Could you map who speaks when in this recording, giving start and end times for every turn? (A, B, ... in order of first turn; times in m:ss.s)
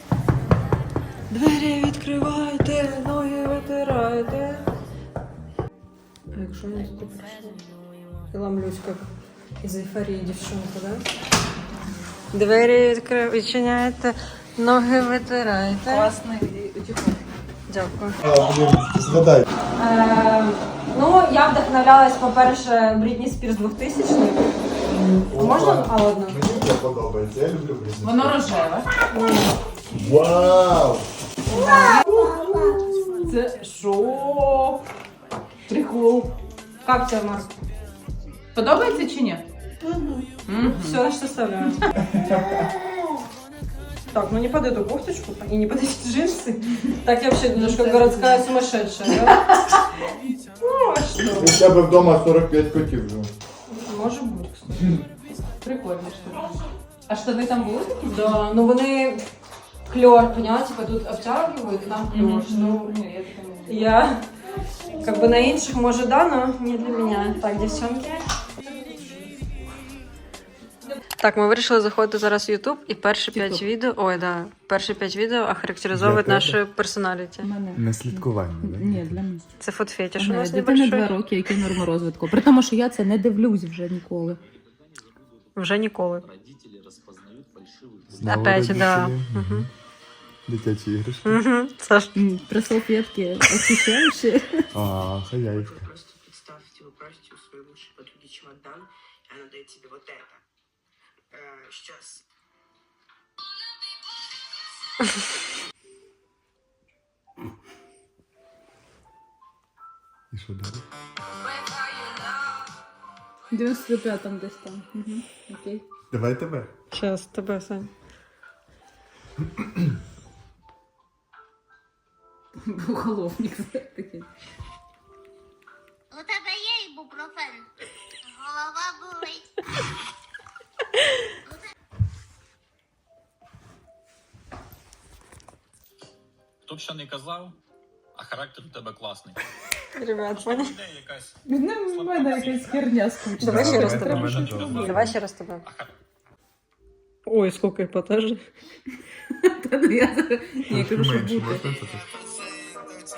0:01.3-0:04.7 A
0:06.3-0:07.6 A
0:08.3-0:09.1 A
0:09.6-0:11.0 A
0:12.3-0:16.1 A
0:15.9-0:17.2 B
0:17.7-0:18.2 A
0:18.2-0:19.5 C
0:19.8-0:24.5 A
0:25.1-0:28.5 C
0:25.4-0:26.4 A
0:28.0-0:28.9 B
0:29.1-0:29.6 A
0:29.9-0:31.1 C
0:31.5-0:33.4 A
0:31.7-0:32.7 B
0:33.2-0:34.8 B
0:35.7-0:36.4 B
0:36.8-0:37.6 A
0:38.5-0:39.4 B
0:40.5-0:41.0 B
0:40.5-0:41.9 A
0:42.1-0:42.6 C
0:44.1-0:49.8 A
0:47.6-0:48.5 B
0:49.2-0:50.1 B
0:50.6-0:51.6 A
0:51.2-0:53.3 C
0:53.7-0:55.0 A
0:55.6-0:56.6 B
0:57.1-0:58.4 B
0:58.1-0:59.2 A
0:59.9-1:02.9 A
1:02.1-1:03.9 B
1:03.7-1:04.3 A
1:05.0-1:08.3 A
1:08.8-1:09.3 B
1:11.2-1:17.5 A
1:13.3-1:13.6 B
1:15.9-1:16.6 C
1:17.4-1:19.5 B
1:17.7-1:19.2 C
1:19.6-1:21.1 A
1:20.2-1:24.4 B
1:24.5-1:25.6 D
1:25.6-1:26.2 A
1:26.2-1:28.4 D
1:28.1-1:29.7 C
1:28.2-1:29.7 A
1:30.5-1:31.4 C
1:31.2-1:32.1 A
1:32.2-1:34.7 B
1:34.7-1:35.7 C
1:35.5-1:40.5 D
1:41.3-1:42.3 D
1:50.3-1:50.8 C
1:53.5-1:55.8 B
1:56.1-1:56.7 C
1:56.9-1:57.9 A
1:59.6-1:59.8 C
2:02.6-2:04.3 B
2:06.1-2:07.7 E
2:08.3-2:09.5 E
2:16.7-2:17.6 F
2:18.2-2:19.4 F
2:20.0-2:20.8 A
2:20.4-2:22.8 F
2:21.5-2:24.8 B
2:23.4-2:25.2 C
2:23.4-2:25.6 A
2:24.1-2:25.0 F
2:25.6-2:25.9 F
2:27.3-2:28.4 A
2:29.4-2:31.6 B
2:30.7-2:32.2 C